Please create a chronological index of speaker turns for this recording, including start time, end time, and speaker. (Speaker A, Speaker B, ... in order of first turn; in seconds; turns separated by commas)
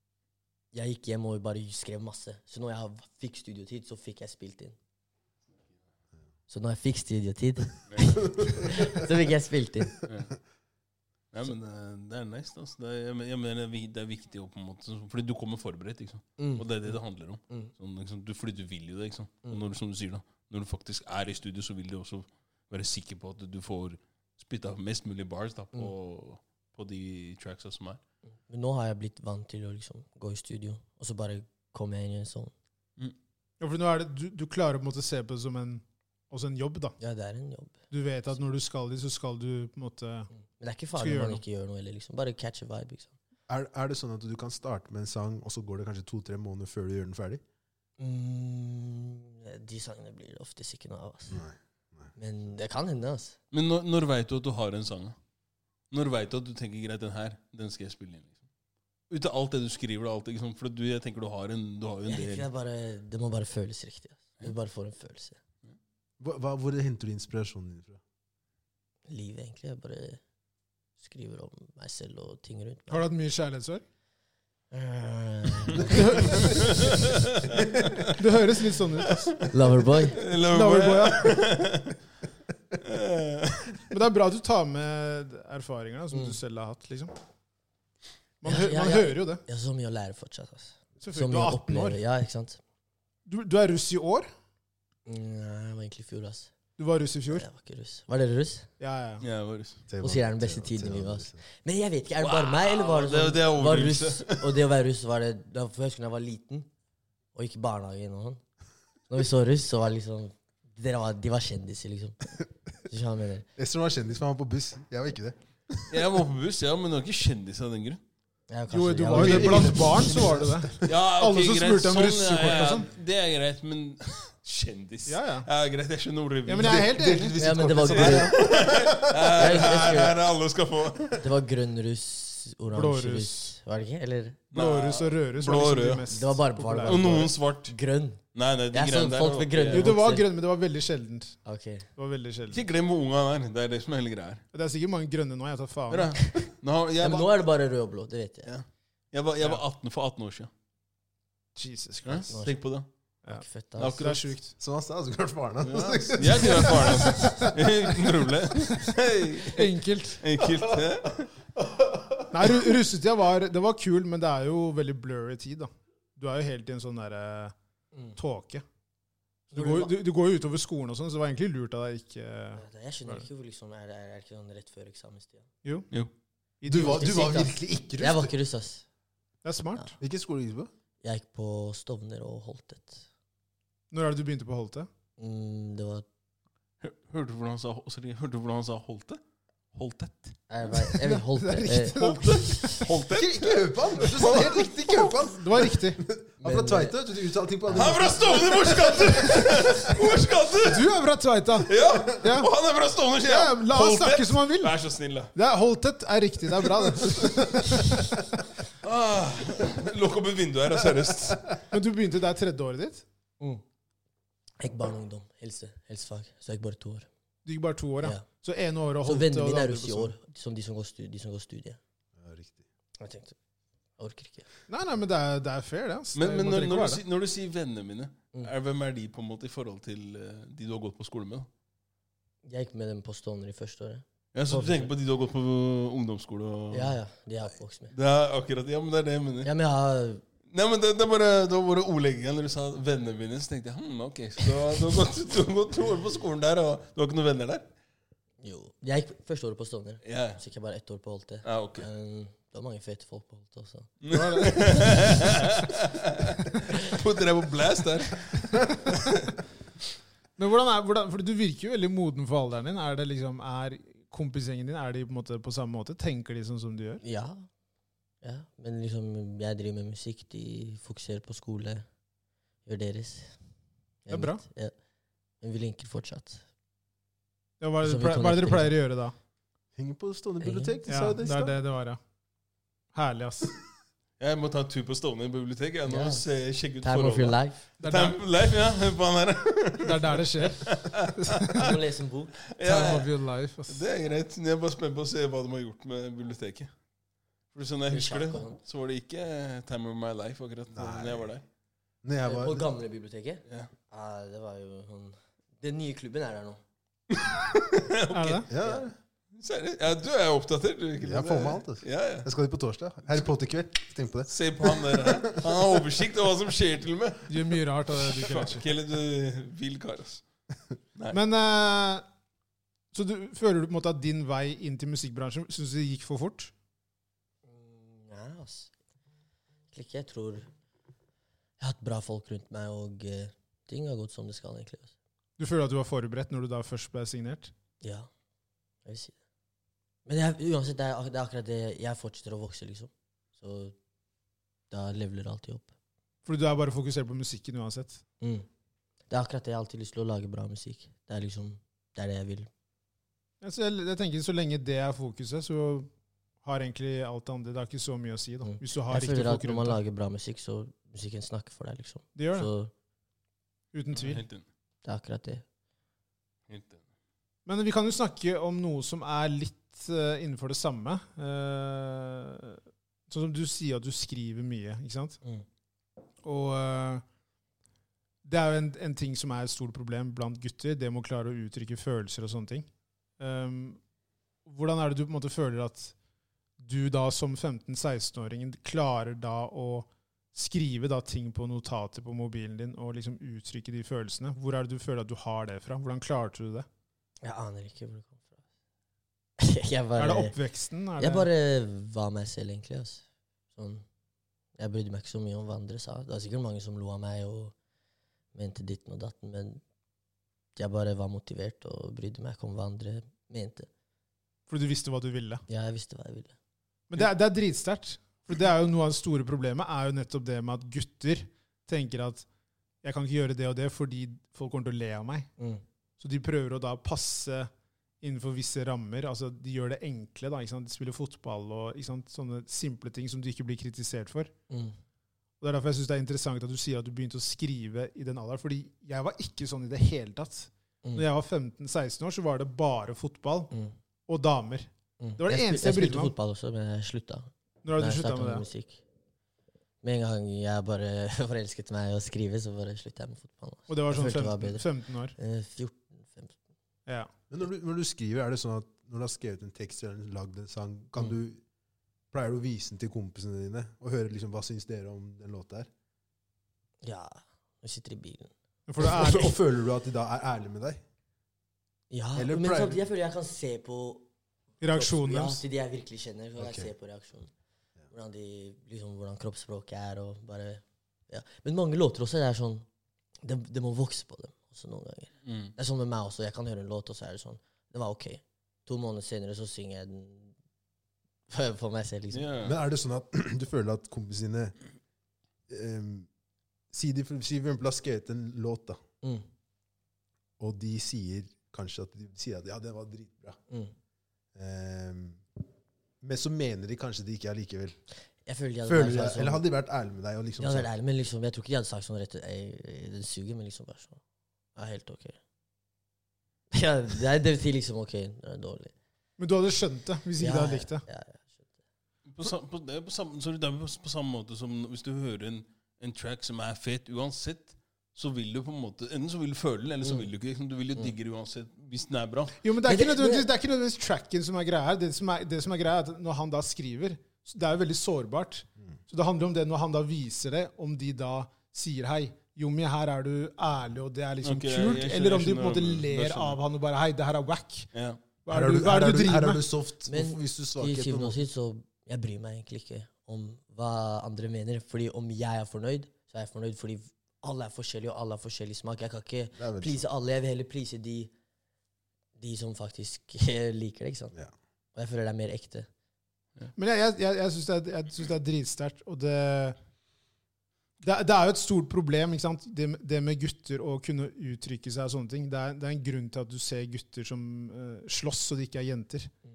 Speaker A: 0.7-4.8, Speaker A: 6.5-10.0, Speaker B: 7.9-8.3, Speaker B: 10.0-10.4, Speaker B: 11.3-28.0, Speaker A: 16.4-16.6, Speaker A: 28.5-32.5, Speaker C: 33.6-37.0, Speaker A: 37.0-37.8, Speaker C: 37.9-40.3, Speaker A: 40.4-43.1, Speaker C: 41.0-41.4, Speaker D: 43.5-47.4, Speaker A: 48.0-51.4, Speaker D: 51.3-52.1, Speaker A: 52.1-53.4, Speaker B: 53.5-55.1, Speaker B: 55.9-58.4, Speaker B: 59.1-62.5, Speaker A: 62.1-65.4, Speaker D: 66.2-68.0, Speaker A: 69.1-70.2, Speaker A: 71.0-73.1, Speaker C: 72.9-73.8, Speaker A: 74.7-76.7, Speaker C: 75.8-76.8, Speaker B: 76.4-78.1, Speaker C: 78.1-79.3, Speaker B: 79.0-79.5, Speaker A: 79.5-80.2, Speaker B: 80.1-82.0, Speaker C: 80.5-81.4, Speaker B: 82.8-83.8, Speaker C: 83.9-87.1, Speaker A: 86.1-86.4, Speaker C: 88.4-89.4, Speaker A: 88.4-92.6, Speaker C: 91.0-92.0, Speaker C: 93.2-94.3, Speaker A: 95.0-96.5, Speaker C: 96.8-97.5, Speaker A: 97.3-98.7, Speaker C: 98.8-99.2, Speaker B: 99.2-99.8, Speaker D: 99.9-101.4, Speaker A: 100.0-106.7, Speaker B: 102.2-104.6, Speaker A: 107.3-108.4, Speaker A: 109.1-112.2, Speaker A: 112.8-113.5, Speaker D: 113.5-115.9, Speaker B: 115.9-118.0, Speaker A: 118.5-120.4, Speaker C: 118.7-122.9, Speaker D: 119.1-120.7, Speaker B: 120.8-126.9, Speaker C: 125.0-125.5, Speaker C: 126.5-127.6, Speaker D: 126.6-129.4, Speaker A: 127.4-128.4, Speaker B: 127.9-131.2, Speaker A: 129.3-130.2, Speaker A: 131.1-134.4, Speaker C: 132.7-133.5, Speaker B: 134.5-136.1, Speaker C: 134.5-137.1, Speaker A: 136.1-138.2, Speaker B: 136.8-137.7, Speaker B: 138.3-139.9, Speaker A: 138.7-140.3, Speaker C: 139.7-141.4, Speaker A: 141.4-141.9, Speaker C: 141.9-142.7, Speaker B: 142.5-144.4, Speaker C: 144.5-146.2, Speaker B: 145.9-147.3, Speaker A: 146.2-146.5, Speaker A: 147.0-148.5, Speaker B: 148.4-150.5, Speaker C: 151.6-152.3, Speaker B: 152.0-152.9, Speaker A: 152.3-152.6, Speaker C: 153.2-154.5, Speaker A: 153.3-154.0, Speaker B: 153.8-154.3, Speaker D: 154.6-158.1, Speaker B: 155.6-161.3, Speaker C: 159.5-160.2, Speaker D: 161.6-162.3, Speaker C: 162.3-167.5, Speaker C: 168.2-168.6, Speaker B: 169.5-169.9, Speaker C: 169.5-173.2, Speaker A: 172.5-175.5, Speaker C: 175.6-175.9, Speaker C: 176.6-177.3, Speaker D: 176.6-178.3, Speaker A: 176.7-178.8, Speaker C: 179.4-179.9, Speaker D: 180.0-180.7, Speaker A: 181.0-183.1, Speaker C: 183.9-184.9, Speaker A: 185.2-186.1, Speaker B: 186.8-189.2, Speaker B: 189.7-190.4, Speaker A: 190.5-192.0, Speaker C: 190.8-192.9, Speaker B: 191.9-195.2, Speaker D: 193.1-199.9, Speaker C: 195.3-196.0, Speaker A: 196.4-196.9, Speaker B: 197.7-200.9, Speaker C: 200.6-202.5, Speaker B: 201.6-205.3, Speaker C: 203.2-204.7, Speaker C: 205.3-207.8, Speaker B: 206.8-207.4, Speaker B: 208.8-211.6, Speaker C: 211.7-213.0, Speaker A: 214.6-217.1, Speaker C: 217.4-220.1, Speaker A: 219.0-221.8, Speaker D: 222.2-222.6, Speaker A: 223.0-223.3, Speaker A: 224.0-224.5, Speaker C: 224.7-227.0, Speaker B: 226.1-231.5, Speaker A: 232.4-234.9, Speaker B: 234.3-237.0, Speaker A: 236.7-237.9, Speaker B: 237.9-239.5, Speaker A: 239.4-240.2, Speaker B: 240.5-247.7, Speaker A: 248.4-253.9, Speaker B: 250.0-250.4, Speaker B: 251.4-251.8, Speaker B: 254.0-259.3, Speaker C: 254.1-254.6, Speaker C: 260.4-267.0, Speaker A: 267.0-267.5, Speaker A: 268.2-271.9, Speaker A: 272.6-273.4, Speaker A: 274.0-274.7, Speaker C: 274.1-274.4, Speaker A: 275.4-276.4, Speaker C: 277.6-279.1, Speaker A: 277.8-278.7, Speaker D: 279.8-281.6, Speaker A: 280.4-280.8, Speaker C: 280.9-282.0, Speaker C: 282.9-283.5, Speaker B: 284.2-291.8, Speaker A: 285.9-286.2, Speaker A: 286.8-287.6, Speaker C: 287.8-288.2, Speaker C: 289.8-291.7, Speaker A: 291.5-292.4, Speaker B: 292.5-293.1, Speaker C: 292.6-293.8, Speaker B: 293.7-296.7, Speaker B: 297.5-301.4, Speaker A: 297.9-298.6, Speaker D: 300.7-301.3, Speaker D: 302.0-302.6, Speaker A: 302.2-306.6, Speaker B: 307.1-308.4, Speaker C: 308.1-308.5, Speaker D: 308.5-308.9, Speaker A: 308.6-308.9, Speaker B: 309.3-312.3, Speaker D: 311.0-315.8, Speaker B: 314.3-320.2, Speaker C: 317.3-318.7, Speaker C: 321.1-322.0, Speaker C: 322.9-326.5, Speaker A: 327.4-328.7, Speaker A: 329.7-330.5, Speaker A: 331.6-334.9, Speaker C: 335.4-337.5, Speaker A: 337.8-338.1, Speaker A: 338.8-339.1, Speaker A: 340.0-343.8, Speaker A: 344.7-345.7, Speaker C: 346.2-348.0, Speaker A: 348.2-348.5, Speaker A: 349.1-352.5, Speaker C: 353.4-355.9, Speaker C: 356.4-359.8, Speaker A: 358.4-362.7, Speaker C: 362.1-362.5, Speaker C: 363.7-364.2, Speaker B: 363.9-364.4, Speaker A: 364.8-365.4, Speaker B: 366.5-366.8, Speaker C: 367.4-375.2, Speaker C: 376.2-377.0, Speaker C: 378.2-382.7, Speaker C: 383.2-383.8, Speaker C: 384.4-385.9, Speaker C: 386.6-396.6, Speaker A: 397.2-398.3, Speaker A: 399.4-400.4, Speaker C: 400.0-401.3, Speaker A: 401.0-403.0, Speaker A: 403.5-403.8, Speaker A: 404.6-407.5, Speaker A: 408.3-409.6, Speaker A: 410.6-413.7, Speaker C: 414.5-415.4, Speaker A: 415.5-416.3, Speaker C: 416.9-422.2, Speaker C: 422.8-425.3, Speaker A: 425.4-425.6, Speaker C: 426.0-427.5, Speaker C: 428.0-434.3, Speaker A: 434.5-434.8, Speaker C: 435.4-443.5, Speaker C: 444.1-446.1, Speaker A: 445.0-448.8, Speaker C: 447.6-448.4, Speaker A: 449.8-456.4, Speaker C: 453.7-455.1, Speaker D: 457.3-461.4, Speaker D: 462.1-465.7, Speaker A: 466.8-468.3, Speaker C: 468.7-469.4, Speaker D: 468.8-470.8, Speaker A: 471.9-474.1, Speaker D: 472.1-472.9, Speaker C: 474.6-475.4, Speaker A: 474.7-477.3, Speaker D: 476.4-476.7, Speaker A: 477.9-482.6, Speaker A: 483.2-490.3, Speaker B: 485.2-485.5, Speaker A: 491.3-492.3, Speaker B: 492.1-492.5, Speaker D: 492.4-494.5, Speaker D: 495.5-496.1, Speaker D: 496.7-498.8, Speaker D: 500.4-503.4, Speaker A: 503.5-503.7, Speaker D: 504.3-505.2, Speaker D: 506.0-507.8, Speaker A: 508.2-509.4, Speaker D: 508.6-510.7, Speaker A: 510.4-514.0, Speaker A: 514.5-515.2, Speaker A: 516.5-518.7, Speaker C: 519.2-520.8, Speaker A: 520.2-521.5, Speaker B: 522.1-532.4, Speaker C: 532.4-547.7, Speaker A: 532.6-533.3, Speaker B: 544.2-546.4, Speaker B: 547.7-548.0, Speaker C: 548.2-549.4, Speaker D: 548.3-551.2, Speaker A: 549.8-561.1, Speaker D: 559.4-559.8, Speaker A: 562.2-564.1, Speaker A: 564.7-565.7, Speaker C: 566.5-569.6, Speaker C: 570.8-579.1